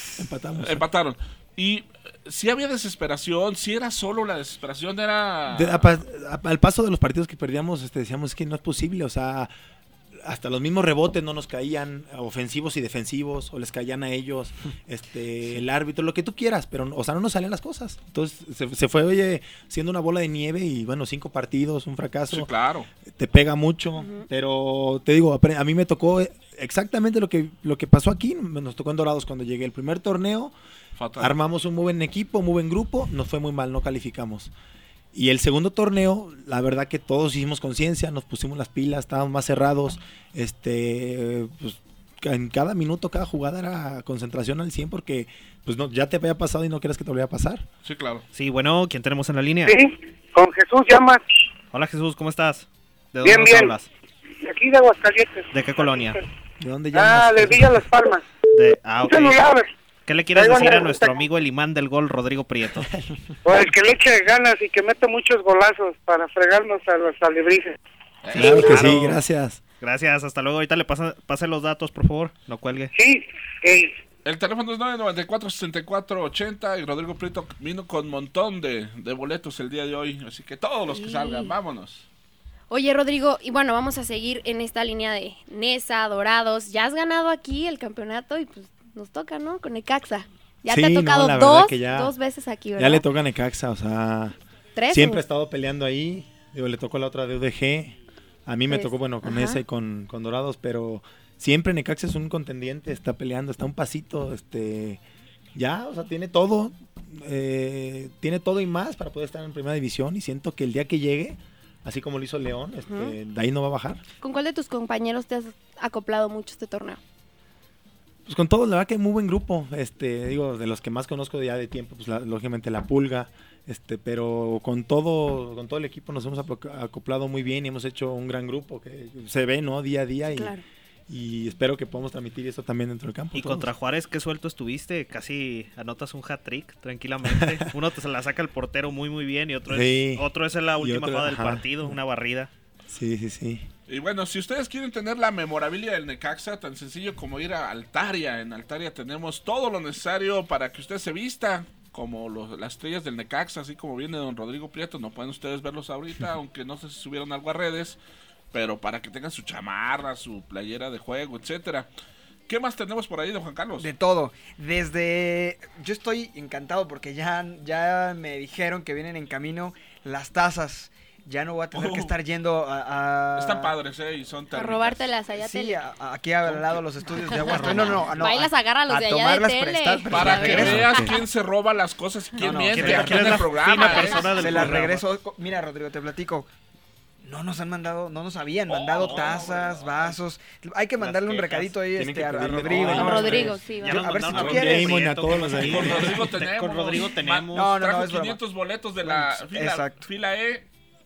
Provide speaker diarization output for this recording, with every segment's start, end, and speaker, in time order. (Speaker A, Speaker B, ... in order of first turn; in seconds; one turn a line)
Speaker A: 0.1-0.9
Speaker B: 0.6-5.9
Speaker A: 5.5-9.5
Speaker A: 10.2-22.5
Speaker B: 22.3-22.9
Speaker A: 23.1-30.5
Speaker C: 23.9-24.3
Speaker B: 30.9-31.4
Speaker A: 31.2-34.5
Speaker A: 35.1-47.7
Speaker B: 47.8-48.2
Speaker D: 48.3-49.8
Speaker E: 49.7-51.2
Speaker D: 51.7-53.9
Speaker E: 53.2-53.7
Speaker E: 54.4-56.1
Speaker D: 55.5-56.2
Speaker A: 56.6-57.8
Speaker E: 56.9-58.2
Speaker D: 58.5-59.4
Speaker E: 59.0-59.7
Speaker D: 60.1-62.9
Speaker E: 60.3-61.2
Speaker A: 62.8-63.1
Speaker E: 63.5-67.8
Speaker B: 68.2-68.8
Speaker A: 68.3-69.6
Speaker D: 68.7-69.2
Speaker D: 69.8-72.9
Speaker E: 72.9-73.9
Speaker B: 74.2-82.1
Speaker C: 80.9-81.5
Speaker C: 82.7-93.0
Speaker A: 90.7-92.1
Speaker A: 92.8-94.4
Speaker C: 94.8-95.2
Speaker A: 94.9-105.0
Speaker C: 98.7-99.6
Speaker A: 105.5-114.0
Speaker C: 112.8-113.2
Speaker C: 114.2-117.0
Speaker A: 118.3-130.6
Speaker C: 130.3-130.6
Speaker A: 131.1-133.7
Speaker D: 133.3-142.5
Speaker A: 137.2-137.7
Speaker A: 139.7-142.0
Speaker A: 142.9-143.7
Speaker B: 143.9-158.0
Speaker B: 158.5-161.9
Speaker B: 162.5-163.9
Speaker F: 163.8-173.7
Speaker B: 171.8-172.1
Speaker B: 173.4-175.2
Speaker C: 174.5-175.8
Speaker F: 175.3-180.9
Speaker C: 177.3-181.1
Speaker D: 177.5-178.0
Speaker B: 180.1-184.8
Speaker F: 182.4-186.5
Speaker D: 182.7-185.0
Speaker F: 187.2-195.1
Speaker B: 188.8-189.9
Speaker D: 189.0-189.6
Speaker D: 191.0-191.7
Speaker A: 191.9-193.6
Speaker C: 192.8-194.1
Speaker D: 193.8-197.7
Speaker A: 194.3-196.2
Speaker B: 195.7-200.7
Speaker F: 197.5-198.4
Speaker F: 199.0-200.0